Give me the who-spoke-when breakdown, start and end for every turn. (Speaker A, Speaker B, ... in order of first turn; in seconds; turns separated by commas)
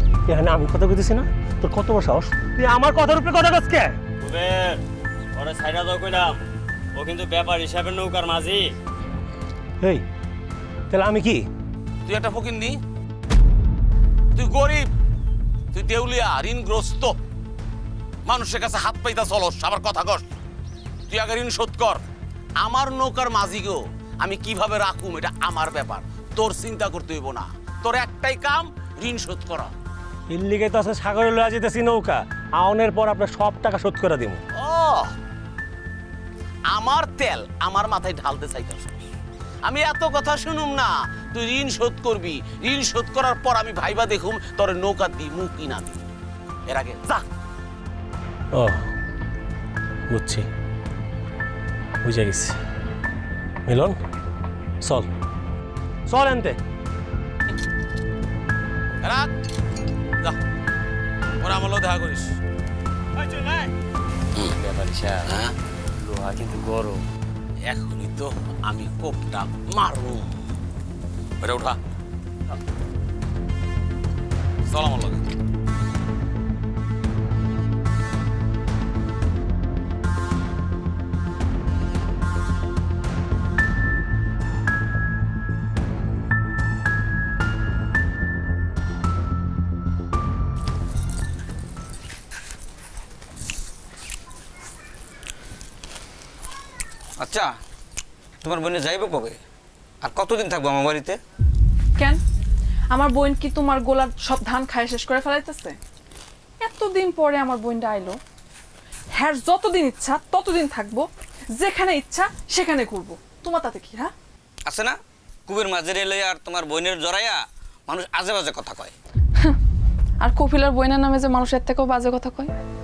Speaker A: 0.3-4.0, Speaker B: 4.2-4.8, Speaker B: 5.3-6.4, Speaker B: 7.0-8.7, Speaker A: 10.9-11.5, Speaker C: 12.1-12.8, Speaker C: 14.3-14.9, Speaker C: 15.7-17.1, Speaker C: 18.3-20.3, Speaker C: 21.1-22.0, Speaker C: 22.6-29.7, Speaker A: 30.3-34.4, Speaker C: 34.6-35.1, Speaker C: 36.7-39.1, Speaker C: 39.6-46.1, Speaker C: 46.7-47.2, Speaker A: 50.1-50.5, Speaker A: 52.0-52.6, Speaker A: 53.7-54.0, Speaker A: 56.1-56.6, Speaker C: 59.0-59.3, Speaker C: 61.4-62.4, Speaker B: 64.6-65.3, Speaker C: 65.2-65.5, Speaker B: 66.0-67.0, Speaker C: 67.7-70.4, Speaker C: 71.4-71.8, Speaker C: 74.7-75.2, Speaker D: 97.2-97.5, Speaker D: 98.4-99.4, Speaker D: 100.0-101.2, Speaker E: 102.9-105.8, Speaker E: 106.6-108.2, Speaker E: 109.1-114.1, Speaker D: 114.7-118.9, Speaker E: 120.2-122.5